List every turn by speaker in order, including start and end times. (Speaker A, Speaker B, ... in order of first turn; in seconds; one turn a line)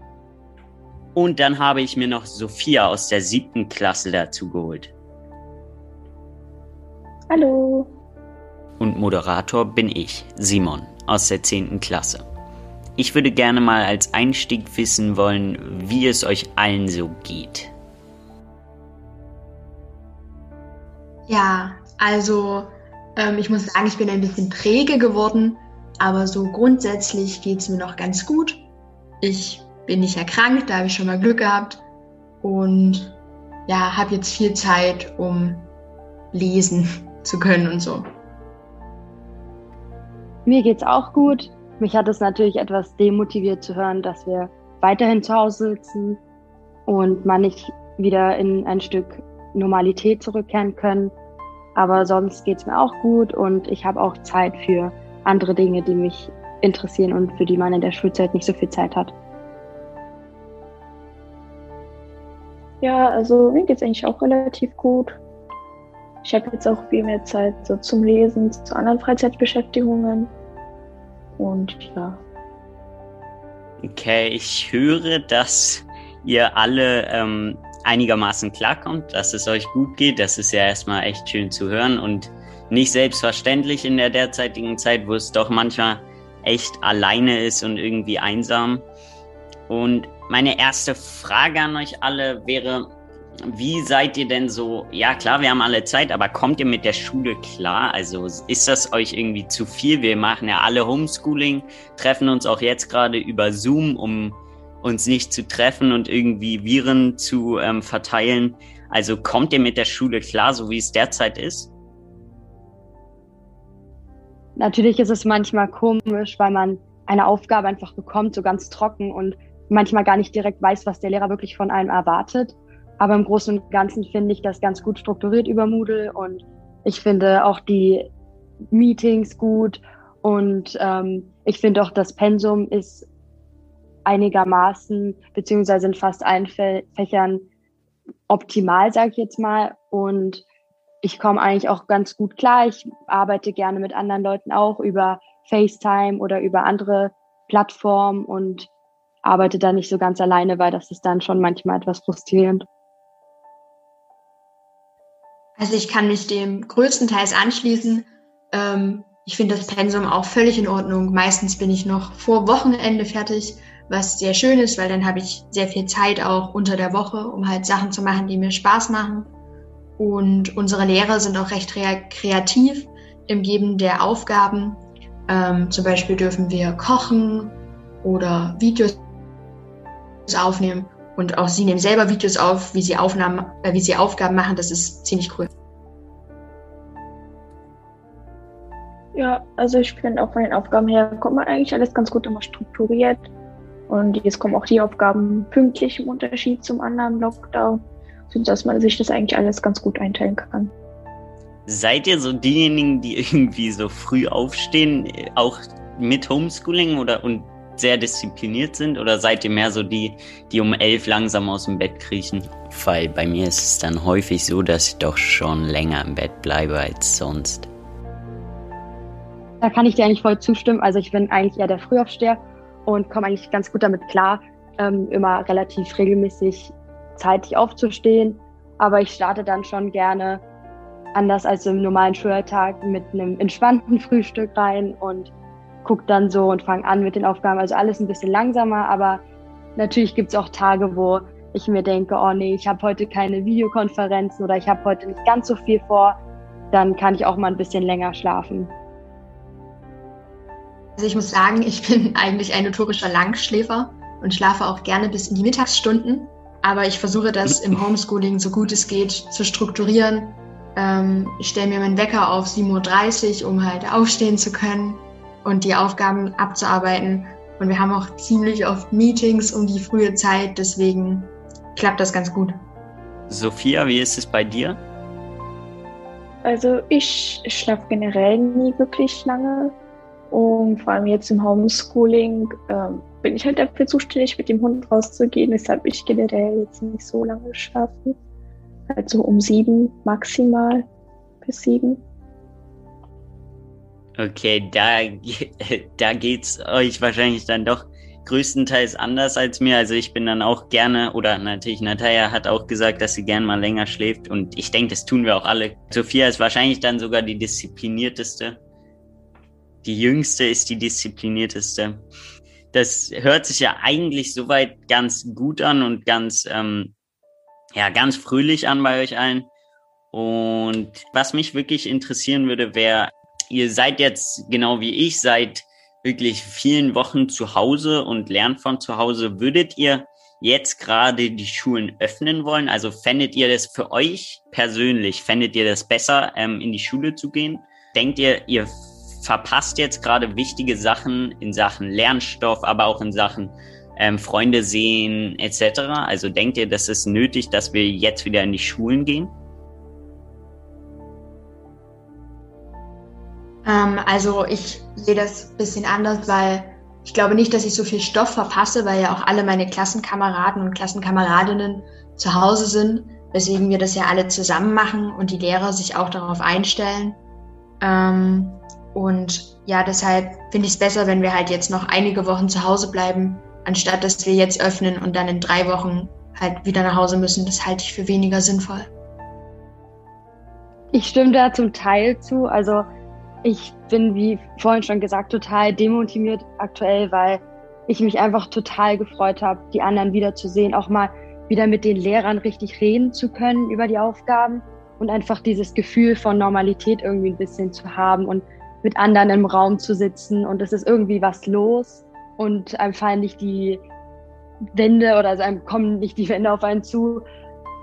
Speaker A: 1.1-4.9
Speaker B: 7.3-7.9
Speaker A: 8.8-12.2
Speaker A: 13.0-17.7
Speaker C: 21.3-28.6
Speaker C: 29.2-31.8
Speaker C: 32.4-35.7
Speaker C: 36.3-38.0
Speaker D: 40.5-46.2
Speaker D: 46.9-51.1
Speaker D: 51.7-59.1
Speaker B: 62.8-65.2
Speaker B: 66.2-70.3
Speaker B: 71.4-72.2
Speaker A: 73.8-88.8
Speaker A: 89.7-92.9
Speaker A: 93.5-111.7
Speaker D: 114.5-128.1
Speaker D: 128.7-133.1
Speaker D: 134.0-137.5
Speaker D: 138.3-140.4
Speaker D: 141.0-148.7
Speaker D: 149.2-152.7
Speaker C: 155.6-169.3
Speaker C: 170.0-179.0
Speaker C: 180.3-185.5
Speaker B: 189.1-193.3
Speaker B: 193.9-200.7
Speaker A: 201.7-217.7
Speaker D: 219.6-230.4
Speaker D: 231.1-235.3
Speaker D: 235.8-239.2
Speaker D: 239.8-246.2
Speaker D: 246.7-248.7
Speaker C: 251.0-272.6
Speaker A: 273.3-274.8
Speaker B: 276.4-279.7
Speaker B: 280.3-288.1
Speaker B: 288.9-290.9
Speaker B: 291.4-292.0
Speaker A: 294.2-308.6
Speaker A: 309.8-312.0
Speaker A: 312.7-316.9
Speaker A: 317.7-319.5
Speaker A: 320.1-349.3
Speaker C: 353.6-367.2
Speaker C: 367.8-378.9
Speaker D: 380.9-382.9
Speaker D: 383.4-403.8
Speaker D: 404.7-407.2